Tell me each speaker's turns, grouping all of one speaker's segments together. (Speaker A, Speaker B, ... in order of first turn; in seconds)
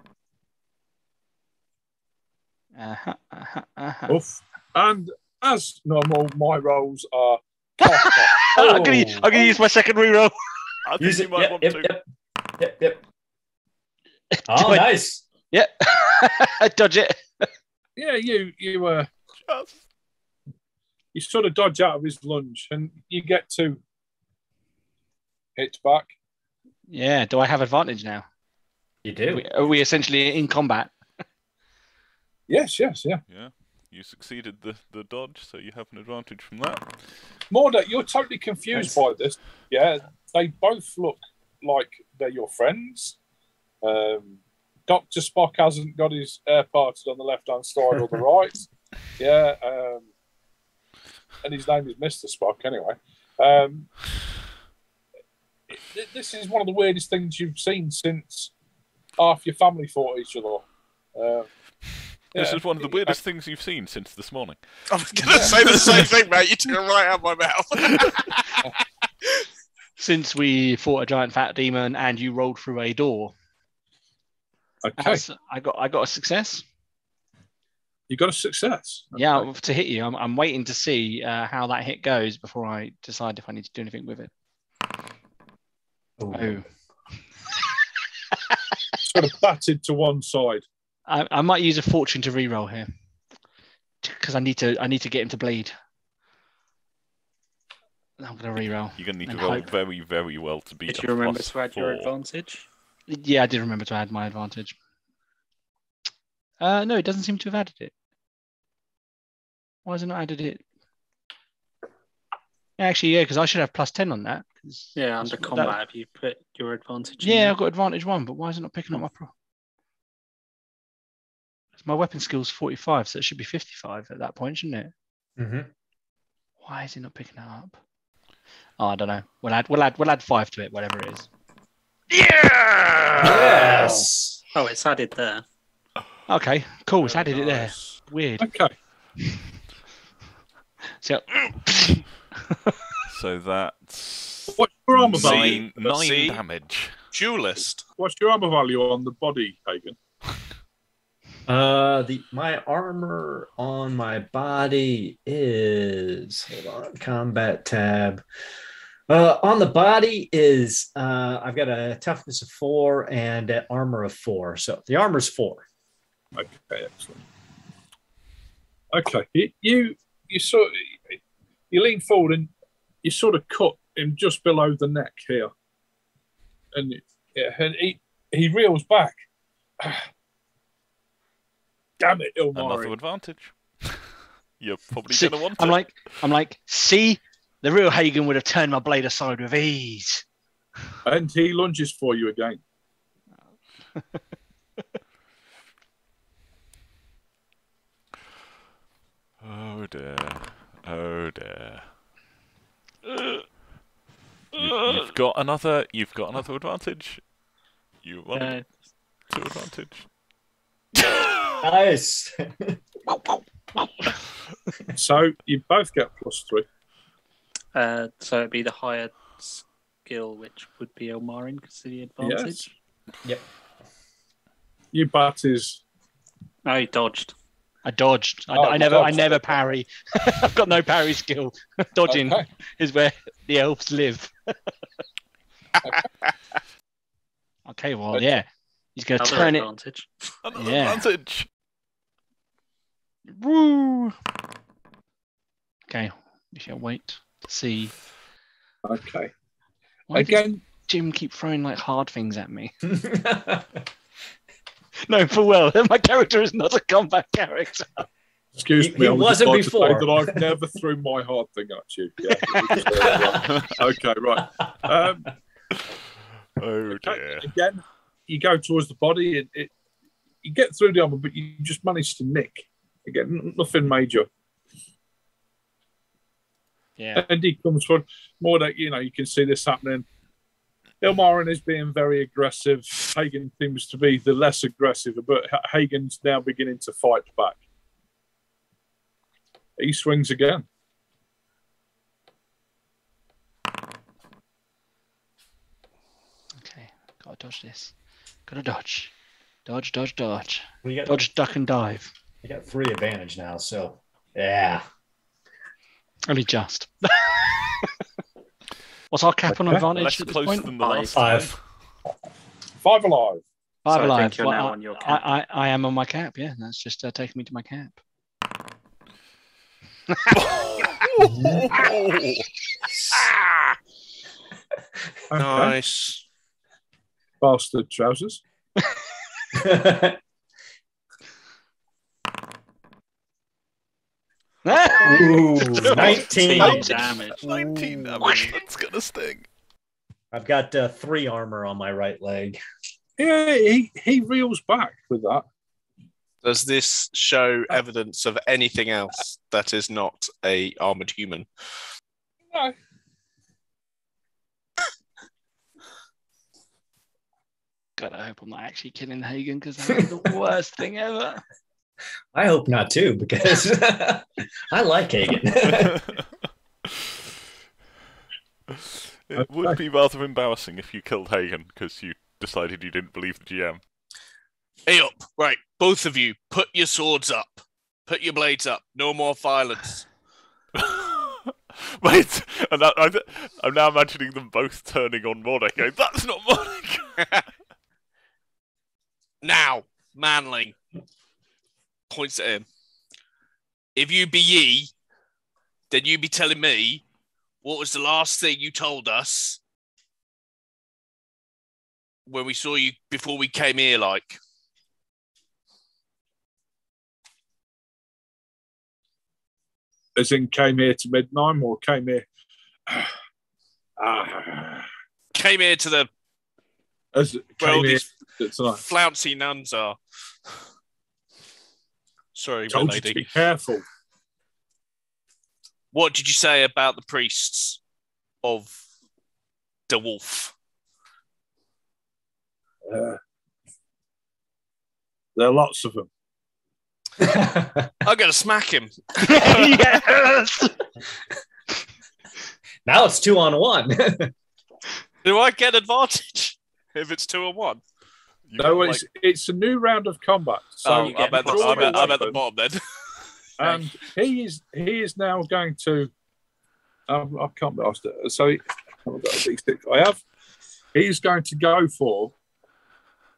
Speaker A: 2.8-4.2, 7.8-10.3, 14.3-14.9, 15.5-17.5, 26.9-28.2, 29.3-30.9, 70.0-73.3, 75.0-76.7, 79.2-84.3, 86.3-86.6, 91.1-92.9, 94.0-95.7, 98.2-99.7, 103.1-104.7, 106.6-107.9, 109.8-110.6, 112.8-115.8, 117.2-119.3, 121.8-124.9, 126.6-127.8, 128.8-131.3, 132.1-134.0, 136.3-138.5, 141.0-142.8, 185.1-190.2, 203.1-203.4, 204.5-205.1, 213.1-214.2, 227.8-234.5, 237.7-239.7, 240.5-241.1, 243.3-244.2, 245.9-247.9, 250.1-252.8, 255.1-258.0, 262.5-262.8, 277.0-277.2, 296.6-297.9, 298.5-299.1, 299.6-302.1, 306.3-307.9, 309.1-310.7, 313.8-318.0, 320.1-320.8, 334.6-336.8, 338.2-338.5, 358.0-361.4, 439.2-440.8
Speaker B: 4.1-8.5, 17.9-19.1, 21.1-23.8, 25.6-26.1, 32.5-33.2, 37.5-43.2, 43.8-50.1, 51.4-54.0, 55.7-58.5, 59.2-61.7, 62.3-63.2, 65.2-65.6, 74.8-75.2, 78.1-79.5, 89.0-90.6, 138.4-138.7, 144.5-145.7, 148.0-150.0, 166.3-167.2, 168.9-171.2, 171.7-172.5, 173.0-175.5, 176.7-179.2, 179.8-180.1, 182.0-183.0, 191.0-192.6, 214.9-216.7, 222.2-222.7, 224.9-225.8, 228.5-229.4, 232.1-232.4, 248.8-249.3, 250.1-250.6, 258.6-265.3, 266.9-269.7, 270.4-274.3, 277.1-280.1, 281.0-287.6, 289.8-290.6, 309.5-309.8, 312.8-313.4, 325.3-325.8, 327.4-328.4, 343.2-345.4, 352.5-352.8, 369.4-369.8, 410.1-412.2, 412.9-413.1, 414.0-414.9, 417.1-418.8, 422.7-423.8, 432.9-433.2, 435.4-436.1, 448.6-452.4, 453.6-456.1, 457.1-460.2, 460.9-462.3
Speaker C: 8.5-9.3, 11.0-13.0, 14.5-15.2, 29.0-29.4, 86.2-86.6, 125.4-125.7, 133.2-134.4, 151.4-158.2, 159.1-165.7, 211.6-212.8, 252.8-253.8, 258.8-260.5, 262.7-263.4, 300.8-301.2, 302.4-304.8, 311.1-311.5, 321.3-321.7, 329.5-330.2, 335.0-336.9, 340.3-342.6, 362.3-366.0, 437.2-437.9, 442.9-444.3
Speaker D: 10.8-11.9, 19.5-19.8, 33.3-37.0, 62.0-66.1, 99.0-102.1, 143.1-147.0, 182.5-185.9, 199.4-201.9, 204.6-207.3, 208.0-210.1, 240.4-241.5, 263.4-263.7, 266.6-267.5, 309.9-311.6, 320.3-322.5, 336.5-339.5, 365.9-366.2, 368.7-373.8, 380.8-387.4, 448.5-449.0
Speaker E: 64.9-68.7, 137.2-138.0, 145.2-146.4, 147.1-147.8, 325.4-326.2, 346.4-351.5, 374.9-380.1, 389.4-390.8, 392.1-392.7, 393.9-394.9, 395.9-397.0, 397.6-399.6, 402.2-404.4, 415.3-416.1, 417.6-418.1, 418.6-420.5, 422.3-423.2, 425.9-427.8, 428.4-428.8, 429.9-430.5, 438.0-439.9, 445.2-447.8, 450.8-453.2
Speaker F: 100.9-102.6, 115.0-117.5, 134.5-135.4, 208.3-208.7, 217.7-222.7, 226.6-227.3, 239.2-240.1, 310.8-311.2, 313.9-315.2, 335.8-337.4, 450.9-452.2